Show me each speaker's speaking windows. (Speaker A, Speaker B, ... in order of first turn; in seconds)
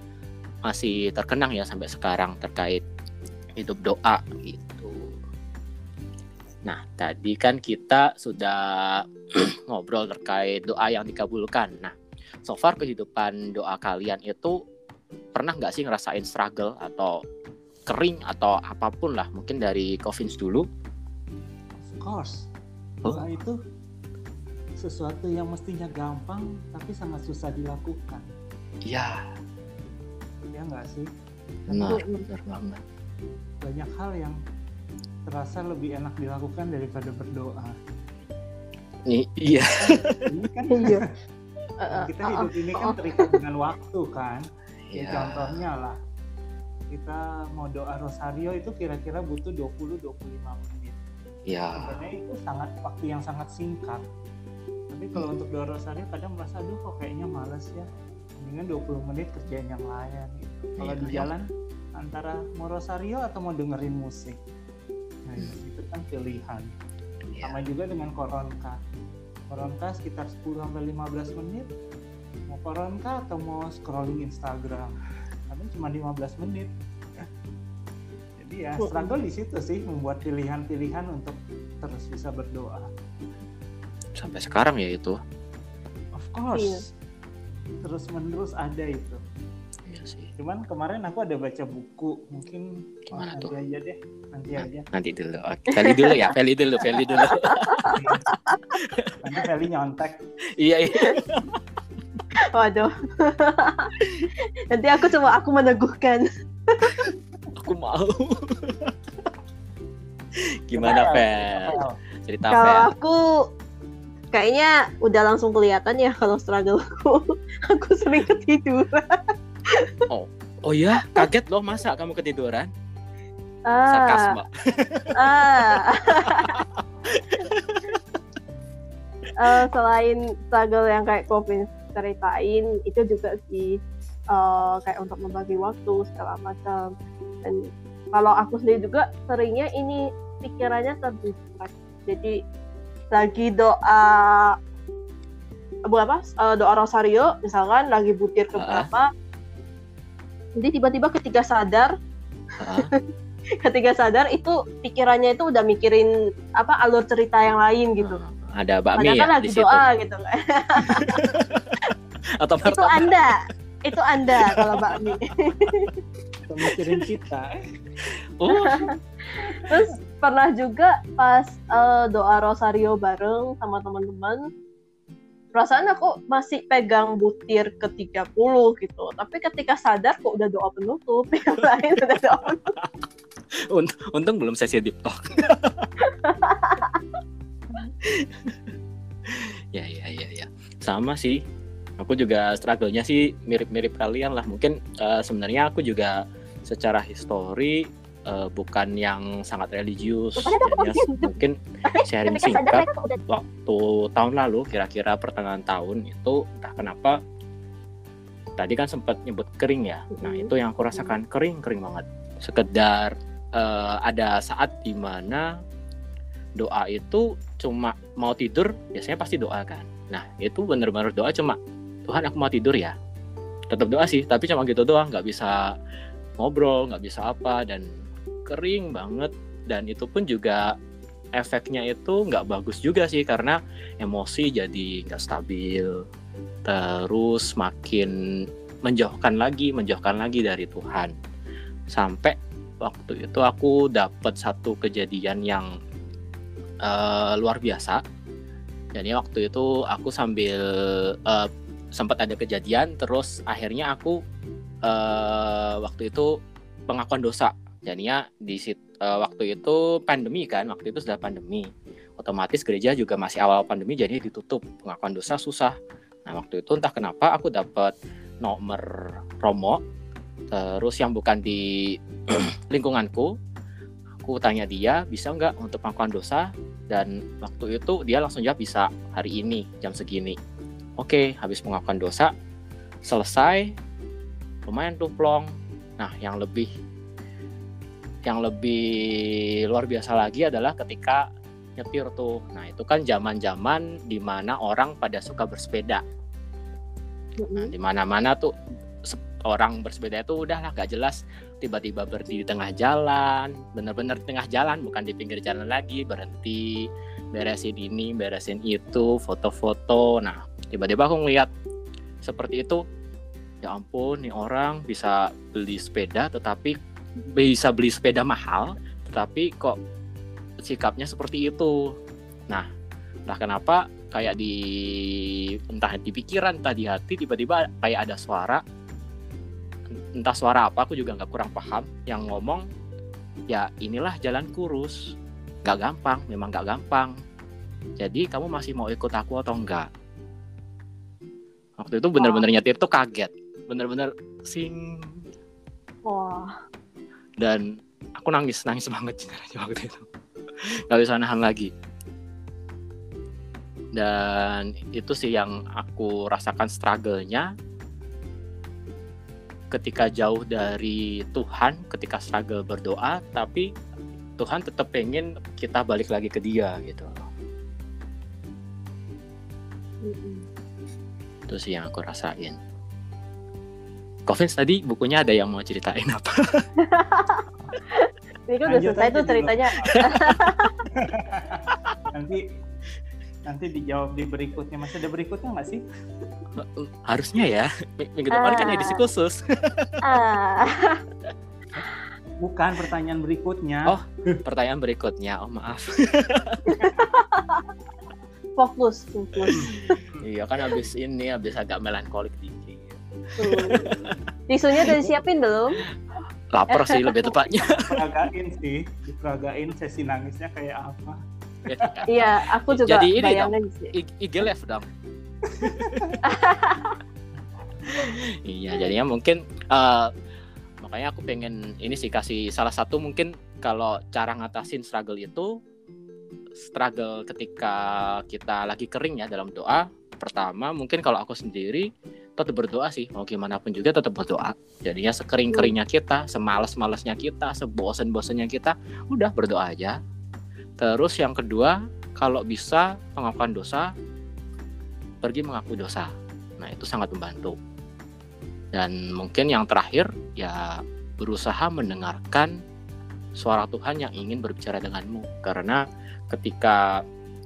Speaker A: 0.7-2.8, 3.6-5.2, 6.7-14.6, 15.3-17.2, 17.9-20.6, 28.9-29.3, 31.7-32.8, 39.1-40.2, 44.9-45.6, 51.5-52.0, 60.8-61.3, 84.2-85.2, 89.9-90.3, 93.1-93.5, 94.6-98.1, 98.8-99.2, 100.6-101.6, 107.6-108.9, 110.4-112.9, 120.1-122.7, 123.9-125.2, 125.8-128.0, 148.6-148.9, 152.6-152.9, 158.0-159.8, 160.9-161.8, 162.4-163.2, 164.4-165.7, 168.4-168.9, 182.2-182.9, 183.7-185.9, 187.8-188.6, 189.3-191.4, 192.0-207.2, 208.6-215.5, 216.6-222.9, 223.7-225.7, 226.4-227.9, 228.5-230.7, 231.4-236.0, 236.7-238.1, 238.8-241.1, 241.9-245.7, 246.8-248.0, 248.9-254.2, 254.9-256.4, 256.9-265.8, 266.3-269.8, 270.5-273.3, 274.2-280.4, 281.0-282.3, 283.1-283.7, 284.7-285.5, 286.0-286.7, 288.2-291.3, 291.8-296.0, 297.6-298.5, 299.0-311.5, 312.2-312.8, 313.6-319.8, 320.6-321.7, 323.3-328.6, 330.2-332.6, 333.5-335.1, 335.6-337.1, 338.0-339.9, 341.8-345.2, 347.4-350.1, 350.9-351.7, 353.9-357.5, 359.7-363.7, 364.4-367.2, 371.5-372.6, 374.3-376.4, 386.6-390.0, 393.9-396.8, 400.2-404.1, 406.5-408.0, 411.7-412.1, 412.7-414.9, 415.8-416.1, 417.9-420.1, 420.8-425.5, 426.6-431.9, 432.4-440.0, 440.8-443.9, 445.2-447.6, 448.7-452.5, 453.4-456.9
Speaker B: 21.8-22.4, 23.1-23.6, 24.8-28.3, 30.5-31.1, 31.7-31.9, 33.6-34.4, 35.3-37.8, 40.2-41.1, 41.9-44.5, 45.0-46.0, 46.9-51.0, 51.8-54.0, 54.9-57.9, 58.4-64.4, 65.3-66.7, 67.4-68.8, 69.5-71.7, 72.5-75.0, 75.5-77.3, 78.4-82.9, 86.2-86.8, 87.8-89.2, 90.4-94.9, 97.9-98.2, 99.2-100.2, 110.7-112.0, 166.5-167.6, 378.7-380.1, 380.9-382.4, 383.5-385.8, 392.4-394.4, 399.5-400.2, 403.9-404.1, 407.8-411.2, 415.6-416.1
Speaker C: 31.9-32.3, 40.7-41.0, 41.8-43.3, 78.8-79.2, 86.5-86.8, 95.7-96.3, 97.1-98.8, 100.9-101.2, 102.4-104.0, 104.7-106.9, 112.5-113.4, 114.3-119.2, 121.0-121.3, 123.7-124.3, 125.2-126.6, 129.4-133.8, 134.3-136.9, 137.4-142.4, 143.1-144.6, 145.9-149.1, 150.6-151.9, 152.7-153.0, 153.6-158.2, 159.0-161.2, 162.6-165.9, 168.5-174.4, 175.6-182.7, 186.1-186.9, 200.4-201.3, 201.9-203.2, 210.1-211.1, 297.4-297.7, 342.2-342.4, 346.1-346.5, 370.0-370.4, 376.8-380.8, 388.3-389.0, 390.0-391.0, 396.6-397.6, 398.6-400.0, 403.4-403.9, 404.5-405.8, 406.7-407.3, 412.1-413.9, 416.2-417.0